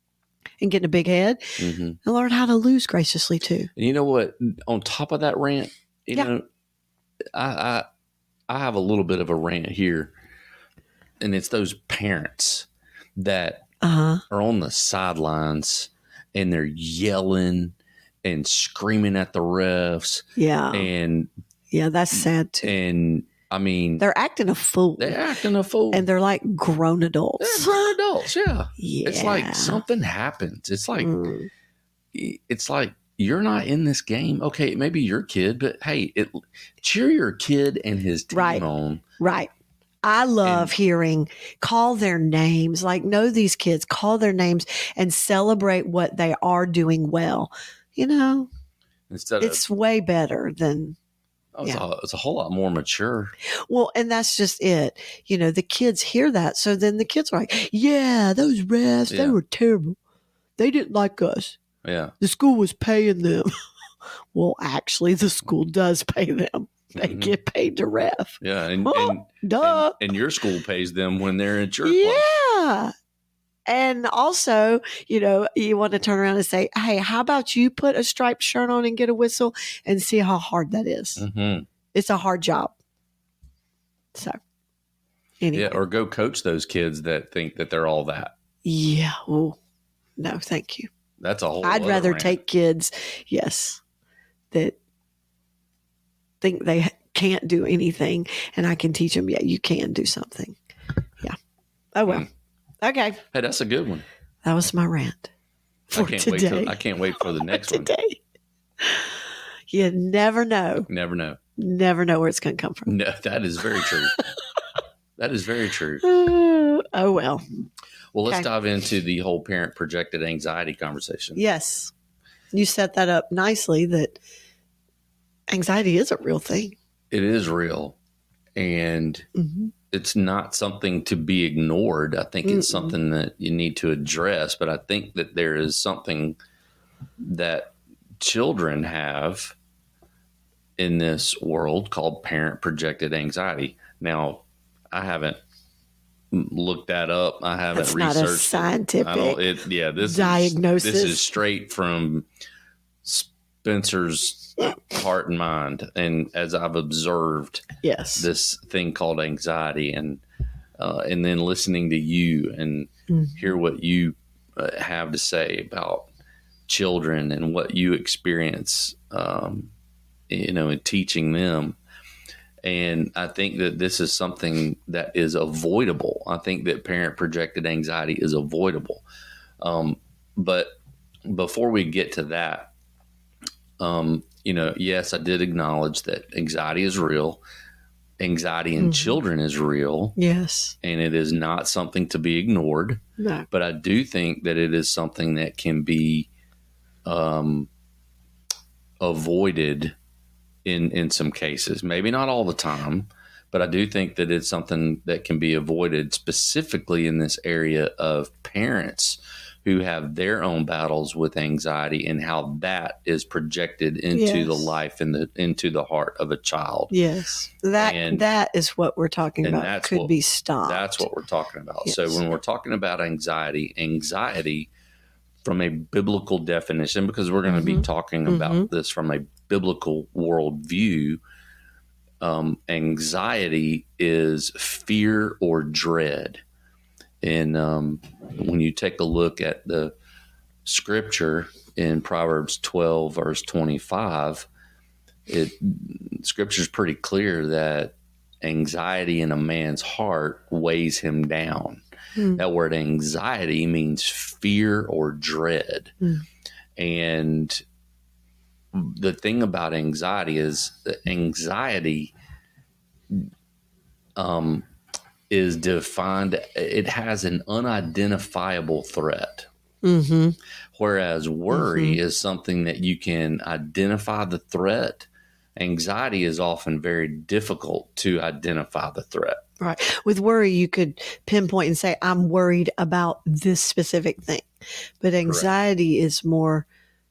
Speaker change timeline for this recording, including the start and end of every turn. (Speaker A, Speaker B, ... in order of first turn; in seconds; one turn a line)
Speaker A: 0.6-3.7
Speaker B: 1.6-2.0
Speaker B: 3.8-6.5
Speaker B: 7.3-7.8
Speaker B: 8.5-10.1
Speaker B: 11.2-13.7
Speaker A: 13.8-14.2
Speaker B: 14.3-21.3
Speaker A: 20.4-20.9
Speaker A: 21.7-22.7
Speaker B: 22.6-24.1
Speaker A: 24.0-25.2
Speaker B: 25.0-26.1
Speaker A: 25.9-27.8
Speaker B: 27.4-31.1
Speaker A: 28.8-29.8
Speaker A: 31.0-31.5
Speaker B: 32.1-39.0
Speaker A: 38.3-38.6
Speaker A: 39.2-39.5
Speaker A: 40.0-48.5
Speaker B: 40.4-40.7
Speaker B: 49.1-49.6
Speaker A: 49.4-51.0
Speaker B: 51.6-53.3
Speaker A: 53.7-60.0
Speaker B: 59.1-59.4
Speaker A: 60.6-61.6
Speaker B: 61.8-62.1
Speaker A: 62.2-63.5
Speaker A: 64.3-70.0
Speaker B: 67.0-67.3
Speaker B: 68.4-72.3
Speaker A: 71.8-72.9
Speaker A: 73.7-81.2
Speaker B: 81.2-81.7
Speaker A: 81.9-82.7
Speaker A: 85.4-85.8
Speaker B: 85.5-88.3
Speaker A: 88.7-89.6
Speaker A: 90.2-90.9
Speaker B: 91.2-92.4
Speaker A: 91.6-93.8
Speaker A: 96.4-100.6
Speaker A: 102.0-102.3
Speaker A: 102.8-103.2
Speaker B: 103.3-104.0
Speaker A: 104.4-105.3
Speaker A: 105.9-108.2
Speaker B: 105.9-107.9
Speaker A: 108.8-110.9
Speaker B: 110.9-111.4
Speaker A: 111.6-112.9
Speaker B: 112.9-114.2
Speaker A: 113.8-114.2
Speaker B: 115.2-116.0
Speaker A: 116.0-117.4
Speaker B: 118.1-121.4
Speaker A: 121.4-121.9
Speaker A: 122.5-124.2
Speaker A: 125.5-126.8
Speaker B: 127.1-128.0
Speaker B: 128.6-129.3
Speaker A: 129.4-129.7
Speaker B: 129.9-136.4
Speaker A: 132.4-133.0
Speaker B: 137.2-139.6
Speaker B: 140.8-145.4
Speaker B: 146.3-152.3
Speaker A: 147.7-149.4
Speaker A: 150.0-151.3
Speaker B: 153.0-160.2
Speaker A: 157.8-158.3
Speaker B: 160.8-166.1
Speaker A: 163.1-163.5
Speaker B: 166.7-169.7
Speaker B: 170.3-171.8
Speaker B: 172.6-179.0
Speaker B: 179.6-180.8
Speaker B: 181.3-182.7
Speaker B: 183.8-187.4
Speaker B: 188.2-190.2
Speaker A: 188.8-189.2
Speaker A: 190.2-190.8
Speaker B: 190.8-196.3
Speaker A: 193.2-193.5
Speaker B: 197.1-197.7
Speaker B: 199.0-199.9
Speaker B: 200.7-216.9
Speaker A: 214.1-214.8
Speaker A: 216.9-221.1
Speaker B: 217.8-218.2
Speaker B: 219.4-224.7
Speaker A: 221.8-222.2
Speaker B: 225.4-231.2
Speaker A: 227.5-228.7
Speaker B: 232.2-236.4
Speaker B: 237.2-239.9
Speaker B: 240.7-244.5
Speaker B: 245.3-255.9
Speaker A: 252.2-252.4
Speaker B: 256.8-257.6
Speaker B: 258.7-262.1
Speaker B: 264.2-264.6
Speaker B: 265.3-269.5
Speaker A: 269.8-270.4
Speaker B: 270.8-279.4
Speaker A: 271.5-272.0
Speaker A: 279.6-284.5
Speaker A: 285.0-286.7
Speaker B: 285.2-285.5